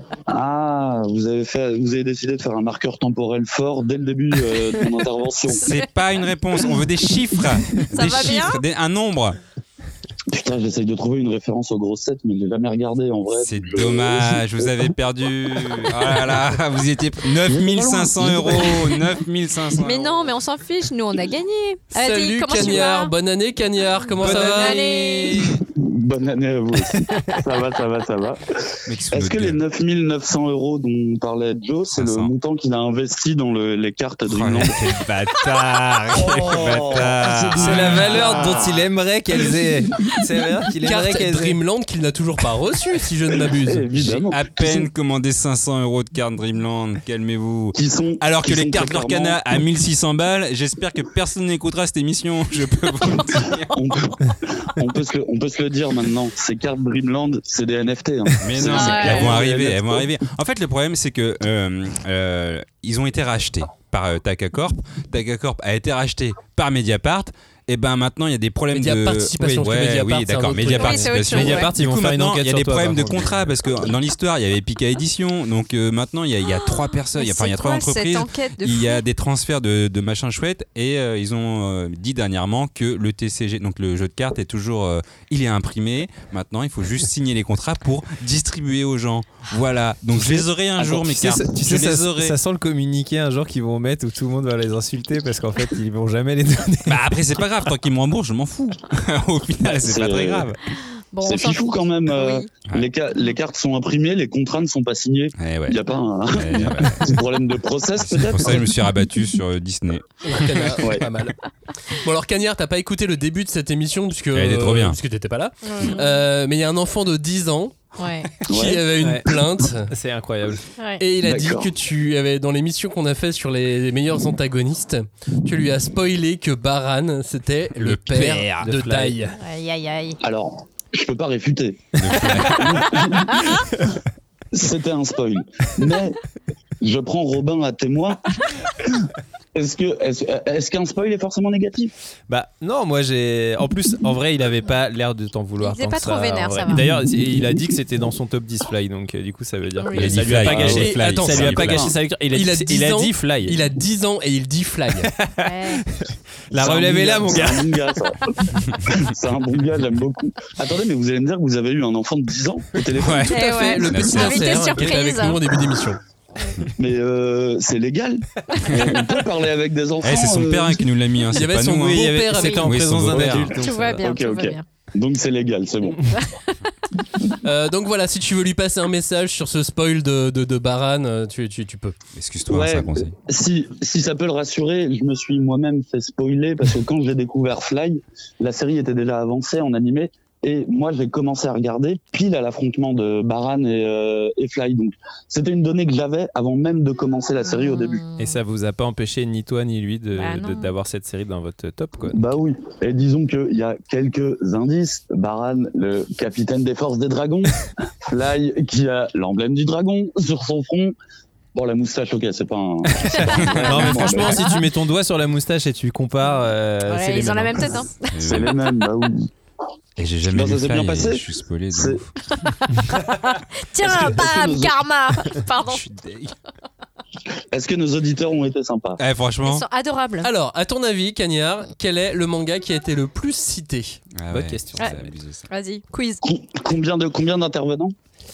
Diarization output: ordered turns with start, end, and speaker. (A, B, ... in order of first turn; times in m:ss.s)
0:00.3-0:05.7 A
0:05.5-0:05.8 B
0:05.6-0:09.4 C
0:07.8-0:08.6 B
0:10.3-0:14.9 A
0:13.4-0:20.2 C
0:15.6-0:16.1 A
0:17.4-0:19.0 A
0:19.7-0:23.1 B
0:22.0-0:25.5 D
0:24.0-0:25.5 B
0:24.2-0:24.9 E
0:25.7-0:28.4 A
0:28.9-0:29.6 C
0:29.1-0:34.8 A
0:31.9-0:32.3 C
0:34.3-0:38.7 C
0:36.1-0:38.9 A
0:37.6-0:41.6 E
0:39.4-0:40.1 A
0:40.8-0:43.9 D
0:43.6-0:44.9 A
0:44.1-0:53.8 C
0:47.8-0:49.6 A
0:53.2-1:00.1 A
0:58.4-1:32.4 C
0:58.7-0:59.3 B
1:08.7-1:11.2 D
1:09.4-1:09.7 E
1:10.7-1:11.7 B
1:11.3-1:13.5 E
1:16.4-1:19.0 B
1:30.1-1:37.2 E
1:36.9-1:40.6 C
1:39.8-1:40.5 A
1:41.1-1:42.5 B
1:41.2-1:48.8 A
1:45.4-1:45.8 C
1:46.3-1:47.2 C
1:48.0-1:50.8 C
1:50.2-1:57.9 D
1:50.8-1:51.1 A
1:54.3-1:55.0 C
1:55.6-1:56.2 B
1:58.0-1:58.3 B
1:58.4-1:59.9 D
1:58.5-1:59.3 A
1:59.0-1:59.3 E
1:59.9-2:00.7 E
2:00.8-2:01.0 B
2:01.0-2:09.4 D
2:01.2-2:01.7 A
2:07.8-2:08.4 C
2:08.1-2:09.2 E
2:09.4-2:10.2 B
2:10.2-2:13.6 A
2:12.0-2:12.7 C
2:12.5-2:13.6 B
2:14.5-2:16.2 A
2:16.8-2:18.2 A
2:19.6-2:21.9 A
2:22.3-2:33.6 E
2:25.6-2:26.9 B
2:29.8-2:30.3 B
2:30.0-2:31.9 C
2:30.4-2:35.1 D
2:31.3-2:32.0 A
2:35.2-2:37.9 E
2:35.4-2:35.8 B
2:36.6-2:43.3 A
2:43.0-2:44.9 C
2:43.3-2:45.4 B
2:43.3-2:46.0 D
2:46.8-2:50.9 A
2:48.5-2:49.3 B
2:50.0-2:53.6 C
2:51.3-2:52.7 D
2:51.5-2:54.1 E
2:52.4-2:52.6 B
2:53.1-2:56.0 A
2:53.6-2:54.6 B
2:56.1-2:56.5 B
2:57.4-3:02.0 D
3:02.2-3:03.2 C
3:02.5-3:18.0 A
3:17.5-3:18.4 B
3:18.2-3:22.2 E
3:20.2-3:20.8 B
3:22.1-3:31.0 A
3:31.5-3:34.5 A
3:33.1-3:34.6 B
3:33.3-3:37.9 E
3:33.3-3:33.6 C
3:36.2-3:38.9 B
3:38.2-3:38.6 C
3:38.2-3:39.3 A
3:40.0-3:42.1 C
3:40.2-3:42.0 A
3:42.4-3:45.9 B
3:43.8-3:44.8 A
3:45.7-3:46.3 C
3:47.5-3:49.0 A
3:49.0-3:49.7 C
3:49.4-3:50.3 B
3:50.2-3:54.0 D
3:54.2-3:55.5 C
3:54.3-3:55.1 E
3:54.8-3:56.2 B
3:56.2-3:57.9 A